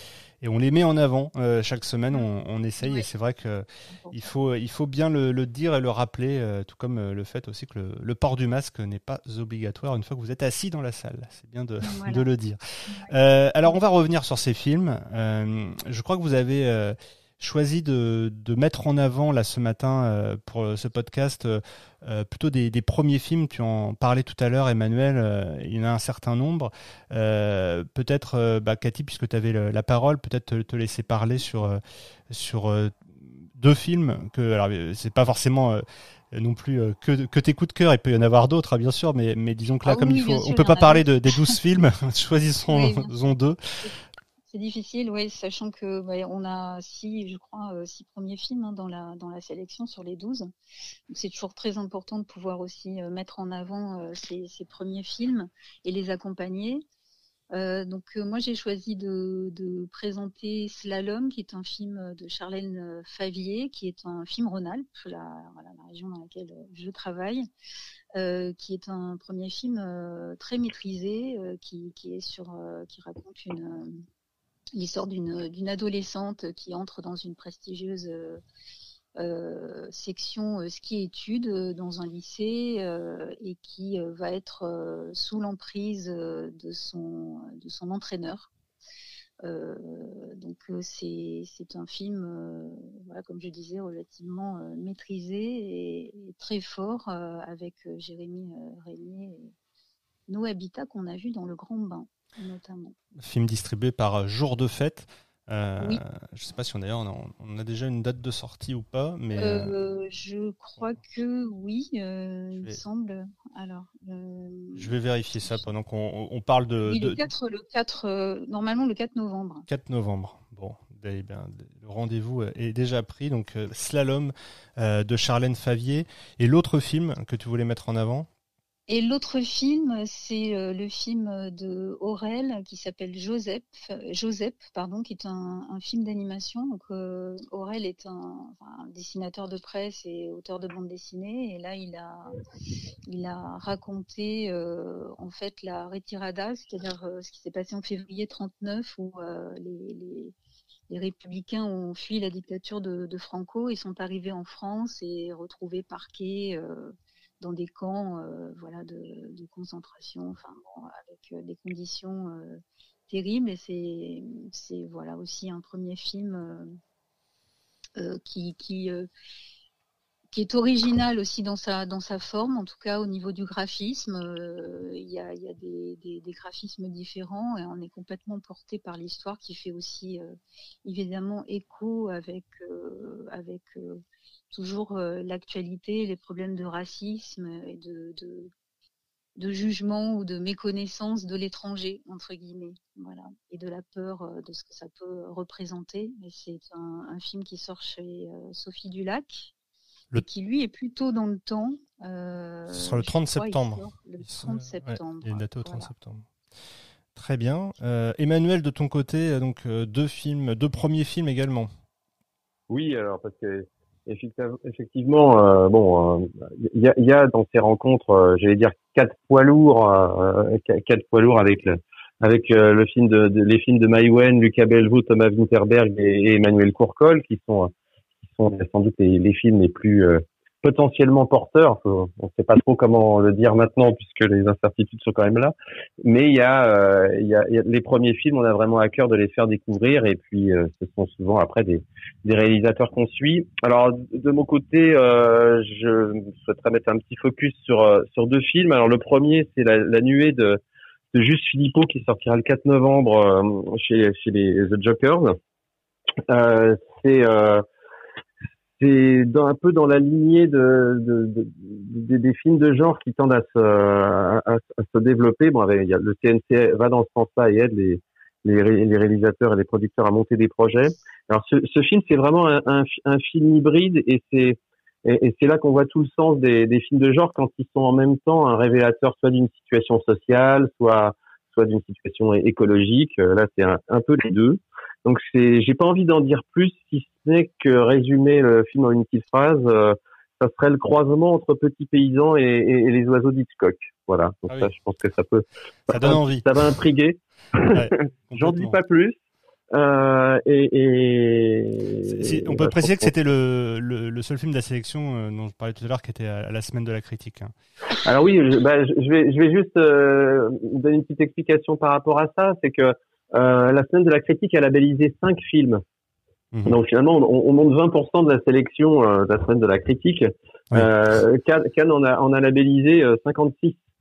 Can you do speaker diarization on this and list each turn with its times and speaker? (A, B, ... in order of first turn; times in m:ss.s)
0:00.4-0:43.6 A
0:02.8-0:03.1 B
0:11.8-0:12.2 B
0:39.8-0:41.5 B
0:42.7-0:43.1 B
0:44.4-0:50.5 B
0:51.1-0:56.8 B
0:57.5-1:07.4 B
1:08.2-1:14.0 B
1:14.7-1:18.4 B
1:19.2-1:28.5 B
1:29.4-1:39.5 B
1:40.3-1:42.9 B
1:43.2-1:49.7 A
1:49.3-1:54.9 B
1:54.7-1:57.3 A
1:56.8-1:59.7 B
1:59.7-2:08.3 A
2:08.9-2:22.4 B
2:23.1-2:30.3 B
2:30.9-2:46.8 B
2:48.0-2:49.1 B
2:50.3-3:08.5 B
3:09.4-3:19.5 B
3:20.2-3:25.9 B
3:22.7-3:26.3 A
3:27.1-3:31.7 A
3:32.7-3:47.7 C
3:48.2-4:10.6 C
4:11.1-4:15.4 C
4:16.3-4:17.6 C
4:18.8-4:59.2 C
4:55.9-4:56.4 A
4:57.7-4:58.8 A
4:59.7-5:03.1 C
5:02.0-5:07.5 A
5:08.0-5:15.8 C
5:16.6-5:23.8 C